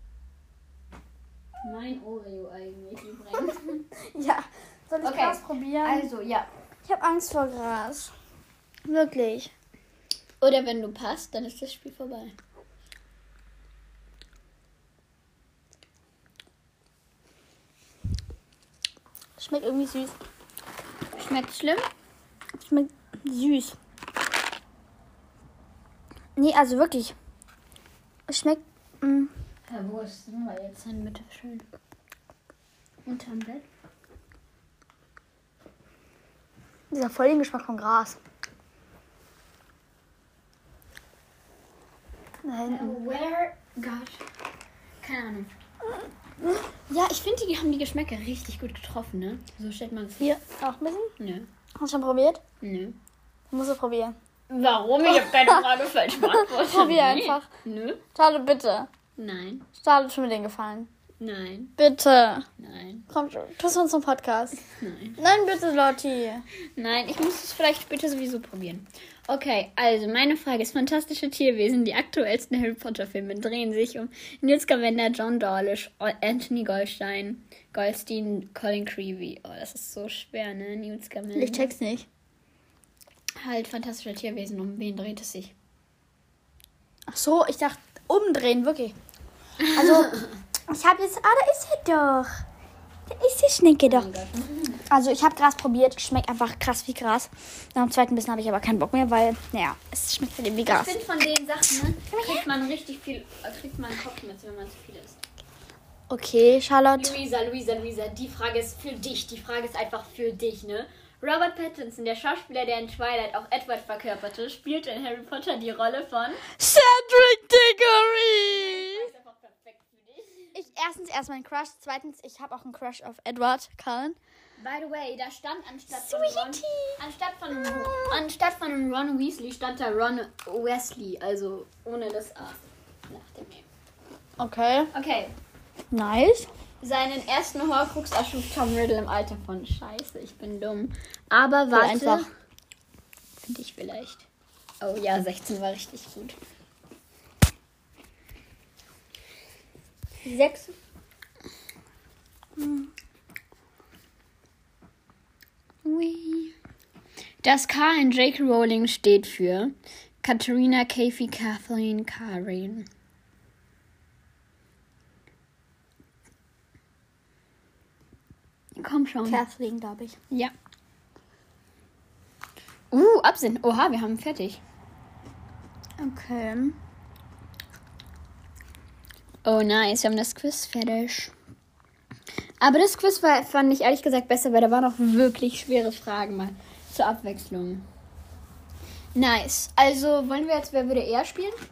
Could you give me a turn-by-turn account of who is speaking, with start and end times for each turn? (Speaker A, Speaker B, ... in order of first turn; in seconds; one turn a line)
Speaker A: 1.6-3.9
Speaker B: 3.5-6.1
Speaker A: 5.0-6.5
Speaker B: 6.8-8.1
Speaker B: 8.9-9.5
Speaker A: 10.4-12.3
Speaker B: 19.4-20.2
Speaker A: 21.1-21.9
Speaker B: 22.6-23.8
Speaker B: 26.4-27.1
Speaker B: 28.3-29.3
Speaker A: 29.7-31.6
Speaker A: 33.0-33.6
Speaker B: 36.9-38.2
Speaker B: 42.4-43.0
Speaker A: 42.7-44.2
Speaker A: 45.0-45.5
Speaker A: 46.9-50.4
Speaker B: 50.2-51.1
Speaker A: 51.2-51.5
Speaker B: 51.8-52.4
Speaker A: 52.6-53.0
Speaker B: 53.5-54.2
Speaker A: 54.5-58.0
Speaker B: 55.1-55.6
Speaker B: 56.2-57.5
Speaker B: 58.1-58.9
Speaker A: 59.2-59.7
Speaker B: 59.8-60.9
Speaker A: 61.2-61.8
Speaker B: 61.8-62.5
Speaker A: 62.6-63.1
Speaker B: 63.1-64.6
Speaker A: 64.7-65.2
Speaker B: 65.2-66.5
Speaker A: 66.8-81.7
Speaker B: 81.3-82.1
Speaker A: 83.4-85.5
Speaker B: 87.1-89.0
Speaker A: 89.7-90.3
Speaker B: 89.7-92.4
Speaker B: 93.1-94.1
Speaker A: 93.8-94.8
Speaker B: 94.9-101.0
Speaker A: 100.7-105.2
Speaker B: 102.1-102.5
Speaker B: 106.1-107.2
Speaker A: 107.0-116.5
Speaker B: 116.6-119.1
Speaker A: 118.4-120.5
Speaker B: 120.5-124.2
Speaker A: 124.6-133.7
Speaker B: 125.9-127.0
Speaker B: 127.6-128.2
Speaker B: 134.4-134.9
Speaker A: 134.9-135.3
Speaker B: 135.9-136.5
Speaker A: 136.8-142.3
Speaker B: 141.7-142.3
Speaker A: 143.4-144.3
Speaker A: 144.8-146.4
Speaker A: 150.2-150.7
Speaker B: 152.6-152.9
Speaker A: 155.8-156.5
Speaker A: 157.4-162.9
Speaker A: 168.8-169.4
Speaker B: 169.3-170.2
Speaker A: 172.9-174.6
Speaker B: 176.0-176.8
Speaker A: 179.4-181.3
Speaker A: 182.6-187.9
Speaker A: 189.2-191.6